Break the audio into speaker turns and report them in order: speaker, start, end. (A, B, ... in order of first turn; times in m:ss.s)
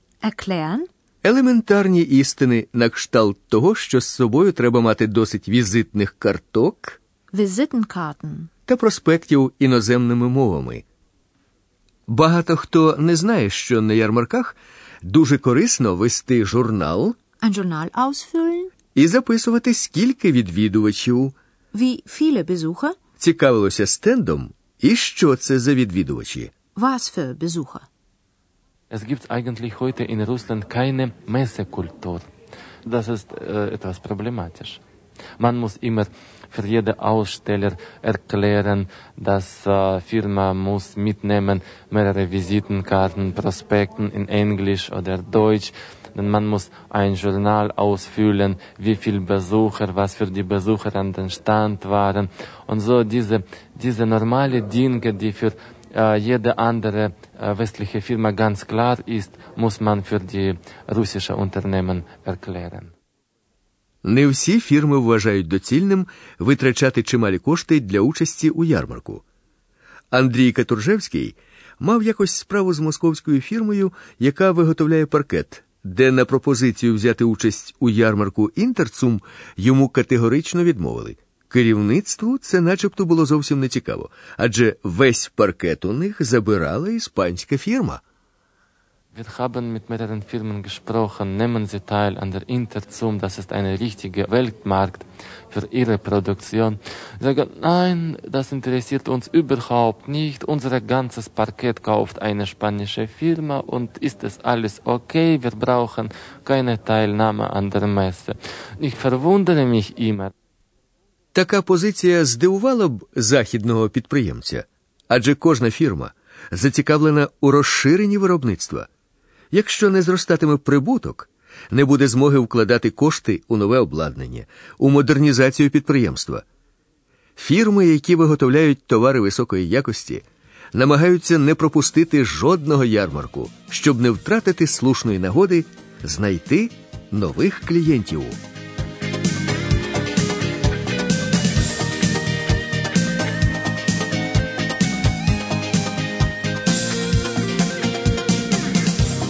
0:00.2-0:00.9 A
0:01.2-0:07.0 B
0:07.3-0:08.5 A
0:08.7-0:10.8 B
0:12.1-0:17.2 B
0:17.4-0:18.7 A
0:19.0-0:21.4 B
0:21.7-0:23.0 A
0:23.2-0:26.5 B
0:26.8-0:27.9 A
0:28.9-0:32.2 C
0:32.9-0:34.8 C
0:35.4-1:02.9 C
1:04.0-1:09.2 B
1:10.1-1:28.0 B
1:29.1-1:50.3 C
1:51.4-1:58.9 B
1:59.5-2:06.4 B
2:07.4-2:18.4 B